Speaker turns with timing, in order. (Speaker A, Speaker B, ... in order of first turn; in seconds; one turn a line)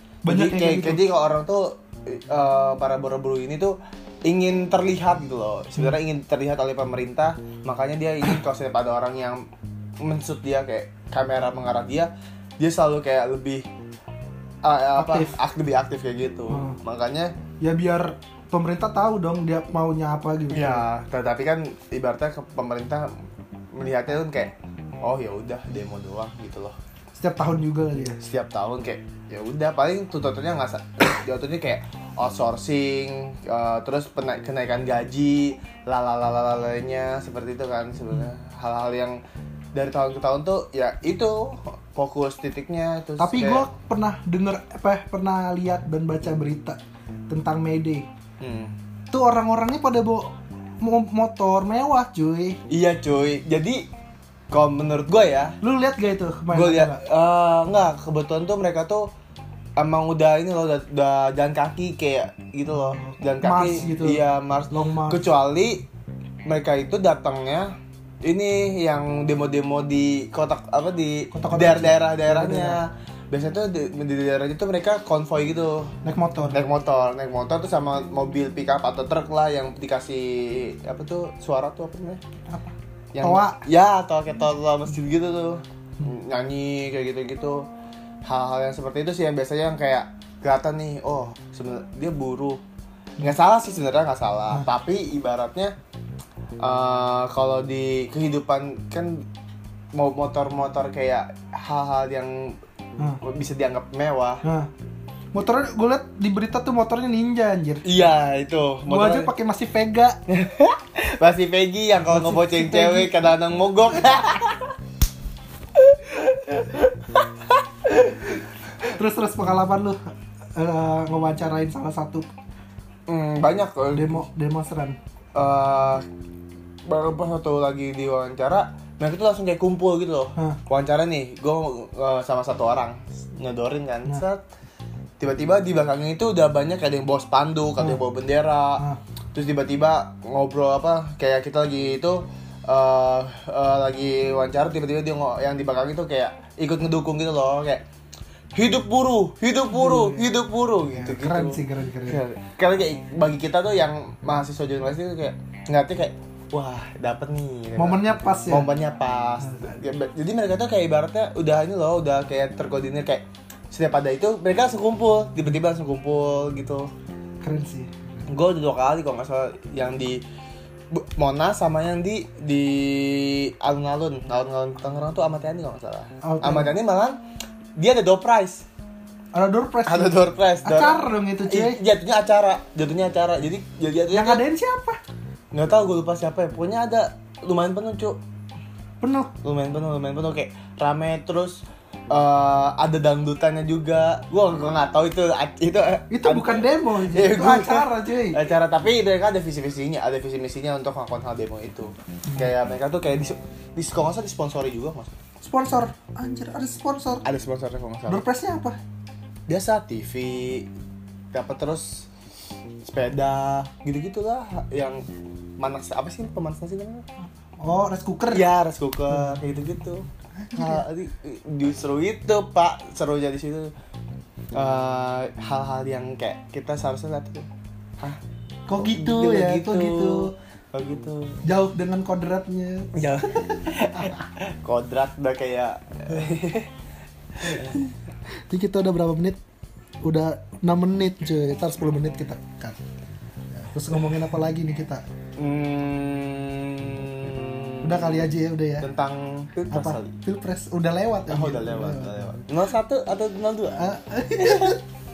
Speaker A: 0.2-1.0
Speaker B: 0.3-9.4
Speaker B: 10.0-13.7
Speaker B: 14.6-17.3
Speaker A: 14.9-15.4
Speaker A: 16.5-16.8
Speaker A: 17.6-20.9
Speaker B: 20.5-23.1
Speaker B: 23.7-26.7
Speaker A: 27.1-28.2
Speaker B: 28.2-39.2
Speaker B: 39.7-43.7
Speaker A: 43.2-48.0
Speaker B: 48.4-48.7
Speaker A: 49.1-50.3
Speaker A: 50.8-52.6
Speaker B: 52.7-53.9
Speaker B: 54.5-55.6
Speaker A: 55.6-57.0
Speaker B: 56.5-59.1
Speaker B: 59.8-65.8
Speaker A: 63.4-65.2
Speaker B: 66.5-67.7
Speaker B: 68.2-75.9
Speaker A: 71.3-72.8
Speaker A: 76.0-76.6
Speaker B: 76.5-82.2
Speaker A: 82.5-83.6
Speaker B: 83.1-87.7
Speaker B: 88.2-92.6
Speaker B: 93.2-95.7
Speaker B: 96.6-99.2
Speaker B: 99.9-102.6
Speaker B: 103.2-104.4
Speaker A: 104.4-104.7
Speaker A: 105.3-107.9
Speaker B: 107.8-109.3
Speaker A: 108.9-110.2
Speaker B: 110.3-114.7
Speaker A: 112.1-113.1
Speaker B: 115.8-118.3
Speaker A: 118.9-120.0
Speaker A: 120.5-122.3
Speaker B: 123.1-124.2
Speaker A: 123.9-125.0
Speaker B: 125.3-126.0
Speaker B: 126.8-134.4
Speaker B: 135.2-138.8
Speaker B: 139.3-147.8
Speaker B: 148.5-166.9
Speaker A: 149.7-150.3
Speaker A: 150.9-152.2
Speaker A: 157.8-158.7
Speaker A: 159.4-159.8
Speaker A: 167.4-167.9
Speaker B: 168.3-170.2
Speaker B: 170.9-177.2
Speaker A: 176.2-176.7
Speaker B: 177.8-178.6
Speaker A: 179.3-181.8
Speaker B: 179.8-184.4
Speaker A: 184.1-185.0
Speaker B: 185.5-188.2
Speaker A: 189.0-189.3
Speaker B: 189.4-205.1
Speaker A: 196.1-198.4
Speaker A: 205.4-207.2
Speaker B: 207.2-208.2
Speaker A: 208.1-208.8
Speaker B: 209.5-210.7
Speaker B: 211.3-212.1
Speaker B: 212.8-215.0
Speaker B: 215.6-217.0
Speaker A: 217.6-218.4
Speaker B: 218.3-223.7
Speaker A: 219.1-219.4
Speaker A: 220.4-220.8
Speaker B: 224.5-227.5
Speaker A: 228.7-230.3
Speaker B: 228.7-231.4
Speaker A: 231.4-233.6
Speaker B: 232.9-236.7
Speaker B: 237.4-237.7
Speaker A: 238.5-239.4
Speaker A: 240.0-242.8
Speaker A: 243.5-245.0
Speaker B: 245.4-250.1
Speaker A: 247.8-248.9
Speaker A: 249.7-252.3
Speaker B: 251.3-254.8
Speaker A: 253.8-254.8